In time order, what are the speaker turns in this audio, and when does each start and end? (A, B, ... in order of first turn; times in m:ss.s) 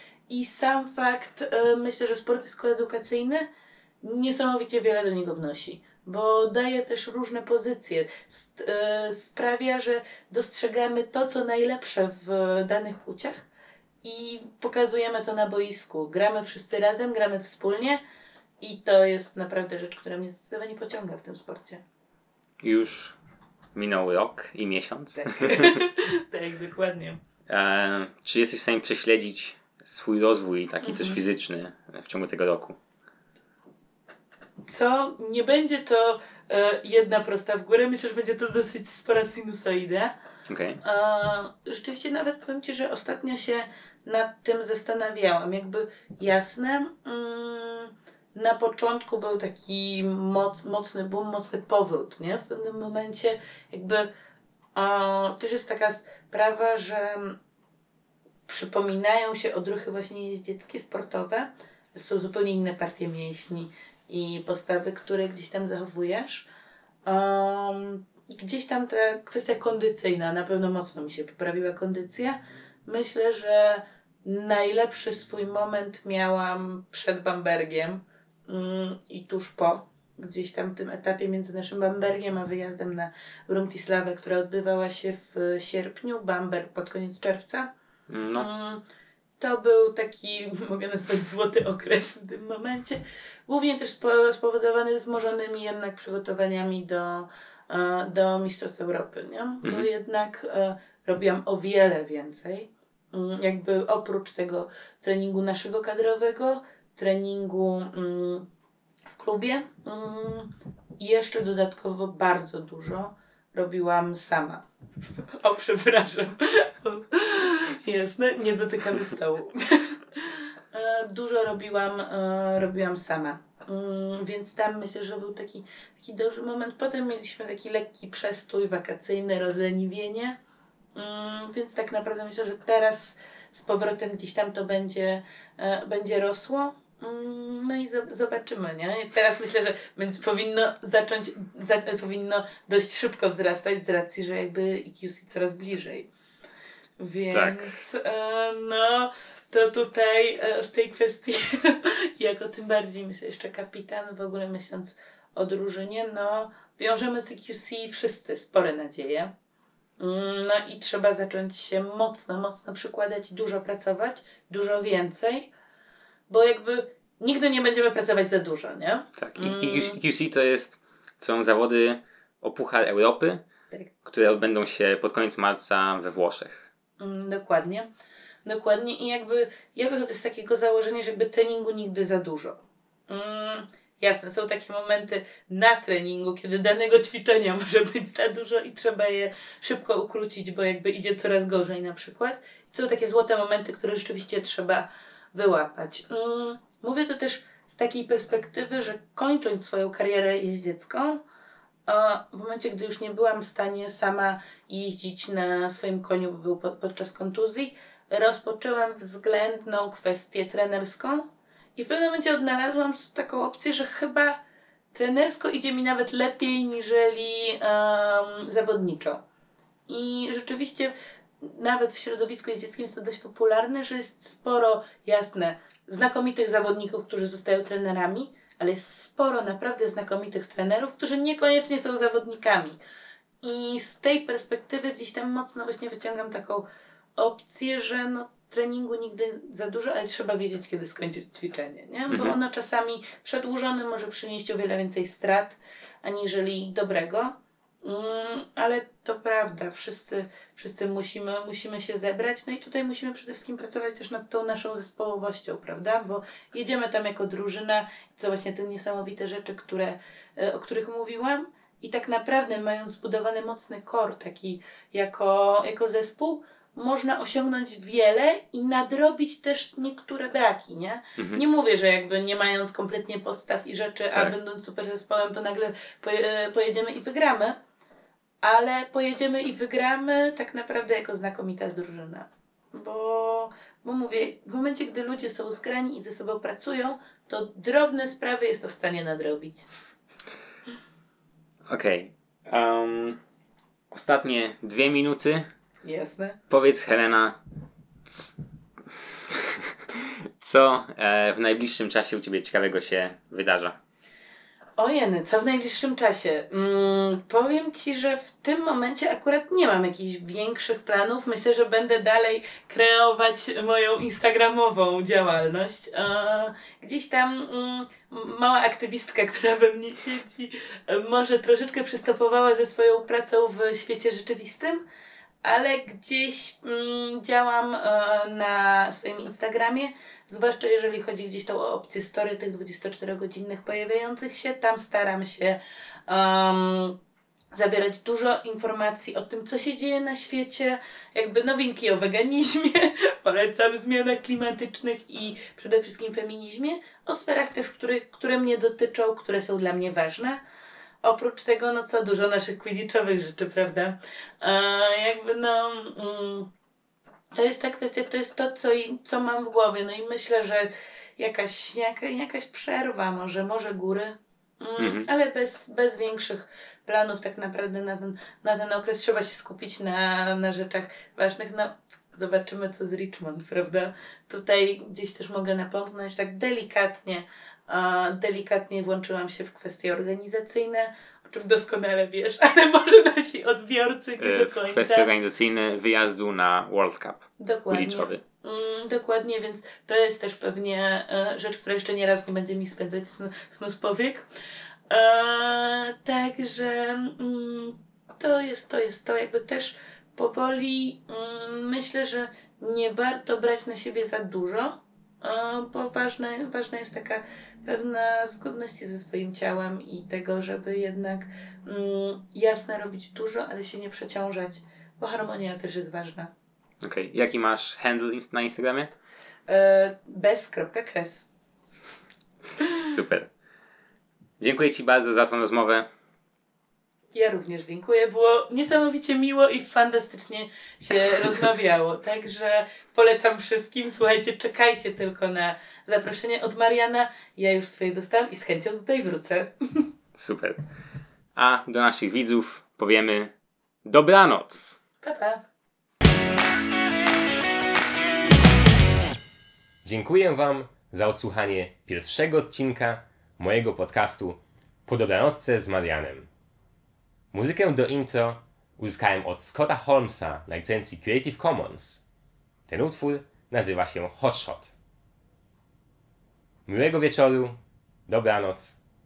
0:00.3-0:03.5 A
0:04.0-0:13.5 A
0:14.0-0:18.0 A
0:18.6-0:21.8 A
0:22.6-0:23.2 B
0:23.8-0:25.8 B
0:25.2-0:27.2 A
0:27.5-0:32.8 B
0:30.8-0:31.2 A
0:34.7-0:40.1 A
0:40.5-0:40.8 B
0:40.8-0:54.1 A
0:54.8-0:57.4 A
0:58.5-1:06.5 A
1:07.1-1:27.7 A
1:28.1-1:28.5 B
1:28.3-1:28.8 A
1:29.4-1:48.5 A
1:39.6-1:39.9 B
1:49.1-1:54.6 A
1:55.4-2:10.4 A
2:11.0-2:26.1 A
2:27.0-2:39.3 A
2:27.3-2:27.7 B
2:40.0-2:45.5 A
2:46.3-2:50.0 A
2:49.2-2:53.4 B
2:54.0-2:56.7 B
2:57.0-2:57.9 A
2:58.4-3:02.6 A
3:03.1-3:21.2 A
3:21.9-3:34.4 A
3:34.9-3:39.2 A
3:39.9-3:52.8 A
3:53.4-4:37.6 A
4:02.1-4:02.4 B
4:31.2-4:31.4 B
4:38.4-4:49.7 A
4:51.7-4:53.2 B
4:53.9-4:55.5 B
4:55.8-4:56.4 A
4:56.5-4:57.4 B
4:58.1-4:58.4 B
4:59.3-5:03.8 B
5:04.8-5:24.8 A
5:25.4-5:37.0 A
5:37.5-5:50.4 A
5:51.0-5:56.5 A
5:57.3-6:25.1 A
6:04.8-6:05.1 B
6:24.2-6:28.2 B
6:27.4-6:34.3 A
6:34.9-6:56.3 A
6:56.8-6:59.0 B
6:59.5-7:01.3 A
7:02.8-7:03.3 B
7:04.4-7:05.9 B
7:07.1-7:19.9 A
7:20.2-7:20.6 B
7:21.4-7:23.3 B
7:23.9-7:24.8 B
7:25.0-7:25.4 A
7:29.8-7:36.3 C
7:37.3-7:42.0 C
7:42.7-7:44.7 C
7:46.7-7:48.8 C